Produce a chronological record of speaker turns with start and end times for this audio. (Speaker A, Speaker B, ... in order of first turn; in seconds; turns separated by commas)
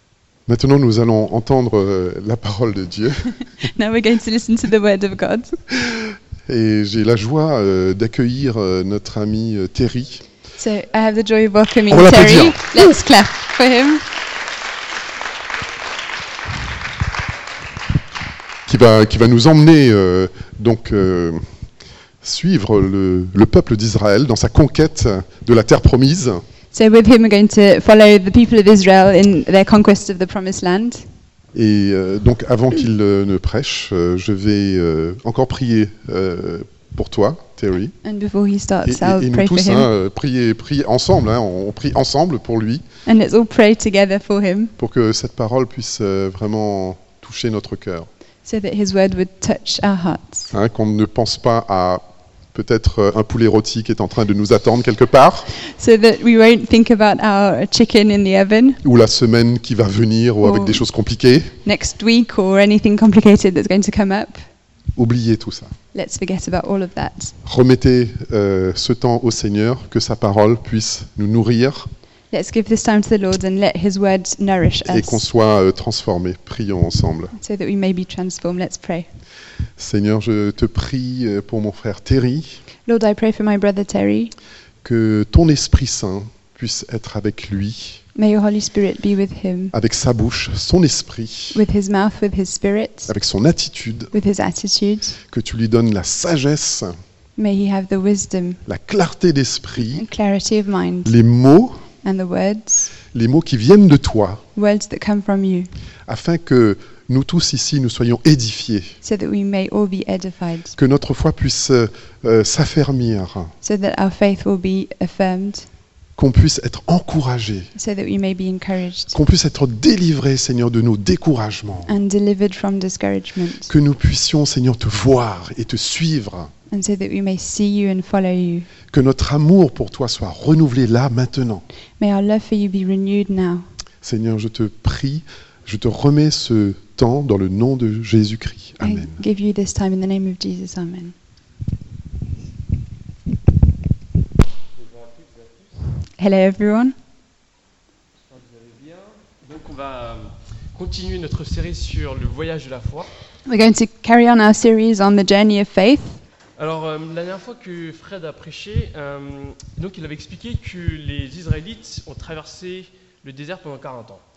Speaker A: 0.5-3.4, Speaker B: 3.6-5.6, Speaker A: 5.7-10.2, Speaker B: 10.6-14.0, Speaker A: 11.9-12.9, Speaker A: 18.7-21.4, Speaker A: 22.2-26.4, Speaker B: 26.7-31.1, Speaker A: 31.5-37.9, Speaker B: 38.0-39.9, Speaker A: 38.9-42.8, Speaker B: 43.1-44.7, Speaker A: 44.8-48.1, Speaker B: 48.5-50.5, Speaker A: 50.5-55.5, Speaker B: 55.6-58.8, Speaker A: 58.8-61.5, Speaker B: 60.4-60.8, Speaker B: 61.6-64.4, Speaker A: 65.0-65.7, Speaker B: 65.9-67.3, Speaker A: 67.5-71.9, Speaker B: 72.3-75.2, Speaker A: 74.9-77.3, Speaker B: 77.3-79.1, Speaker A: 79.8-82.6, Speaker B: 82.8-84.3, Speaker A: 84.8-88.0, Speaker B: 88.2-89.7, Speaker A: 89.7-91.6, Speaker B: 91.5-93.1, Speaker A: 93.1-94.1, Speaker B: 94.1-95.2, Speaker A: 95.3-97.0, Speaker B: 97.4-98.6, Speaker A: 98.7-100.0, Speaker B: 99.9-101.1, Speaker A: 101.1-101.8, Speaker B: 102.0-102.9, Speaker A: 103.0-104.4, Speaker B: 104.6-105.7, Speaker A: 106.1-109.0, Speaker B: 109.0-110.8, Speaker A: 110.8-113.5, Speaker B: 113.6-115.7, Speaker A: 116.2-117.7, Speaker B: 117.8-119.2, Speaker A: 119.1-121.9, Speaker B: 121.9-123.7, Speaker A: 123.7-126.5, Speaker B: 126.7-128.7, Speaker A: 128.9-131.7, Speaker B: 132.0-133.7, Speaker A: 134.0-139.2, Speaker B: 138.8-141.2, Speaker C: 145.0-145.5, Speaker B: 146.2-146.9, Speaker C: 148.3-153.1, Speaker B: 153.5-156.2, Speaker C: 156.6-164.2